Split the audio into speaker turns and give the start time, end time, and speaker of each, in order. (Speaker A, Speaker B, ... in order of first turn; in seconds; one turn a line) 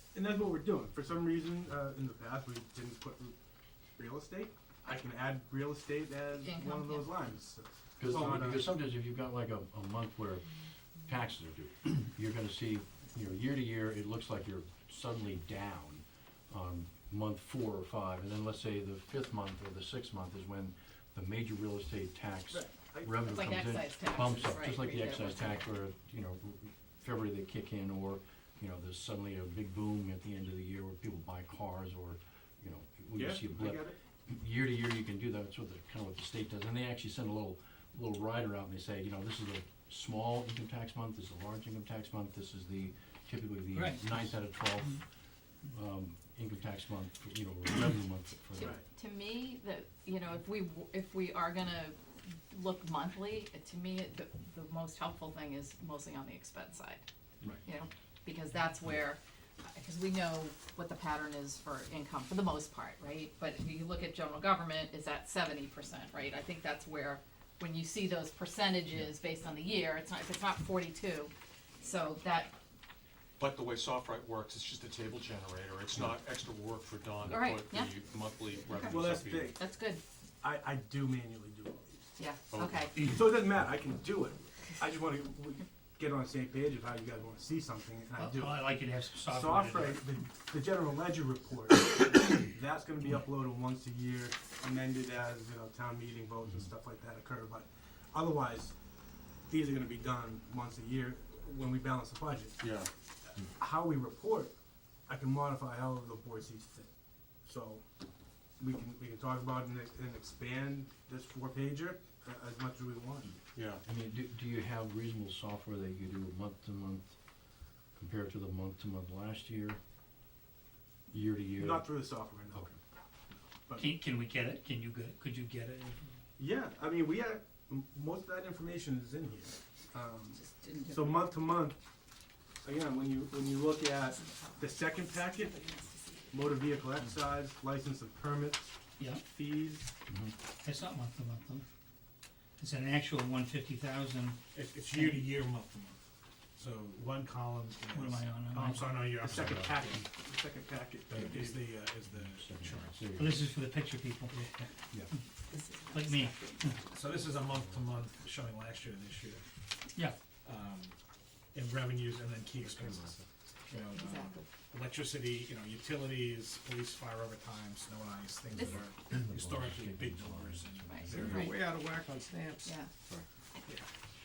Speaker A: 0.1-3.4
Speaker A: 4.0-8.7
Speaker B: 6.4-7.1
Speaker C: 8.0-10.4
Speaker C: 11.1-45.0
Speaker A: 22.5-23.5
Speaker B: 23.3-25.8
Speaker A: 33.1-33.9
Speaker D: 43.7-45.0
Speaker C: 45.7-48.7
Speaker B: 48.5-52.0
Speaker B: 52.5-57.0
Speaker B: 57.6-72.5
Speaker E: 73.4-79.5
Speaker B: 77.2-77.9
Speaker B: 78.7-80.0
Speaker A: 78.8-79.5
Speaker A: 80.4-81.9
Speaker B: 82.2-83.0
Speaker E: 82.5-82.9
Speaker A: 83.0-88.7
Speaker D: 88.2-90.0
Speaker A: 89.2-98.7
Speaker A: 99.5-102.6
Speaker E: 102.6-102.9
Speaker A: 103.4-104.5
Speaker A: 105.1-106.9
Speaker A: 107.4-107.8
Speaker A: 108.6-113.3
Speaker E: 113.5-113.8
Speaker C: 113.8-117.2
Speaker C: 118.0-119.8
Speaker C: 121.1-121.9
Speaker A: 121.5-122.8
Speaker A: 123.4-124.0
Speaker D: 123.8-126.1
Speaker A: 126.4-131.8
Speaker B: 130.3-131.4
Speaker A: 132.6-135.6
Speaker B: 134.0-136.9
Speaker A: 136.3-139.9
Speaker D: 139.0-139.2
Speaker C: 140.1-140.3
Speaker D: 140.6-141.6
Speaker D: 142.6-145.2
Speaker F: 144.5-146.0
Speaker F: 146.6-153.0
Speaker D: 148.0-149.1
Speaker C: 149.3-149.8
Speaker C: 151.1-151.4
Speaker C: 152.1-153.4
Speaker D: 153.1-154.3
Speaker F: 154.3-154.7
Speaker B: 155.5-156.8
Speaker D: 155.9-156.9
Speaker F: 156.9-159.4
Speaker F: 160.4-160.9
Speaker F: 161.5-171.5
Speaker G: 162.7-163.2
Speaker B: 163.7-164.4
Speaker C: 169.1-171.5
Speaker B: 170.9-171.6
Speaker G: 171.1-173.2
Speaker B: 172.6-172.9